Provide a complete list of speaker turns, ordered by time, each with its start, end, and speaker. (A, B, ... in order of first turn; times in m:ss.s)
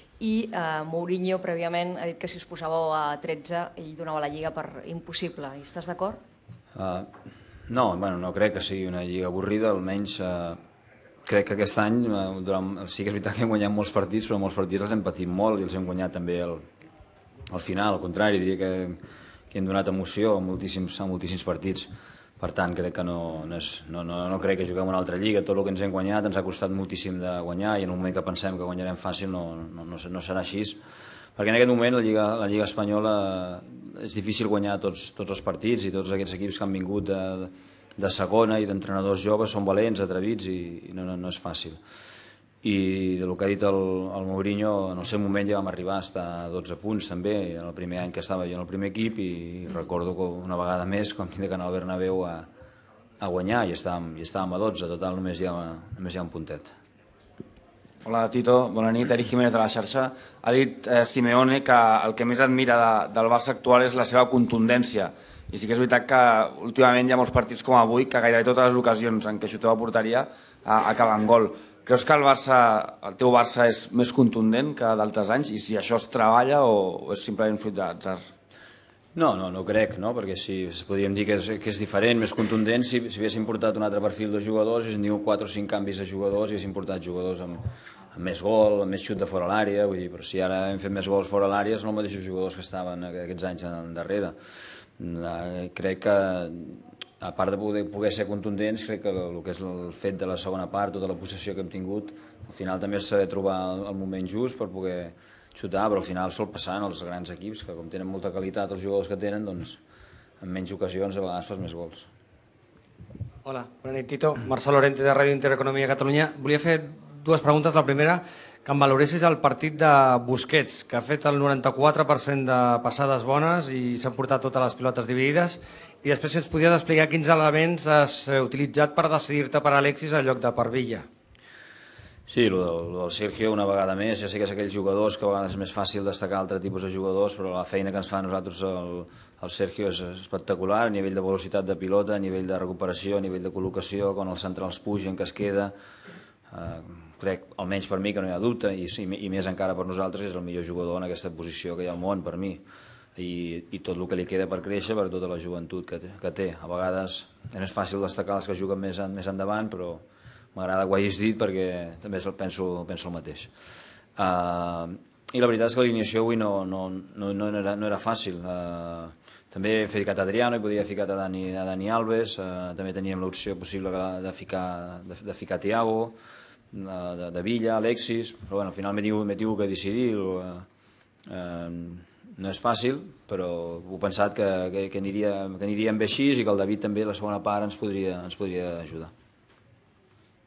0:00.2-0:06.2 A
0:06.8-0:07.1 B
0:07.7-0:10.6 B
0:11.3-0:16.6 B
0:17.5-0:19.0 B
0:19.5-0:30.8 B
0:31.4-0:41.8 B
0:42.6-0:52.5 B
0:53.2-0:56.7 B
0:58.0-1:18.2 C
1:19.2-1:27.6 B
1:28.1-1:34.4 B
1:35.0-1:49.8 B
1:50.4-1:52.1 B
1:53.5-2:05.5 D
1:53.8-1:54.9 C
1:55.4-1:58.2 C
1:58.7-2:04.9 C
2:06.0-2:11.0 D
2:06.1-2:07.3 C
2:08.3-2:10.8 C
2:12.3-2:25.7 B
2:26.5-2:32.6 B
2:33.2-2:40.0 B
2:40.6-2:43.5 B
2:44.2-2:56.2 B
2:56.7-3:00.7 B
3:01.3-3:09.1 B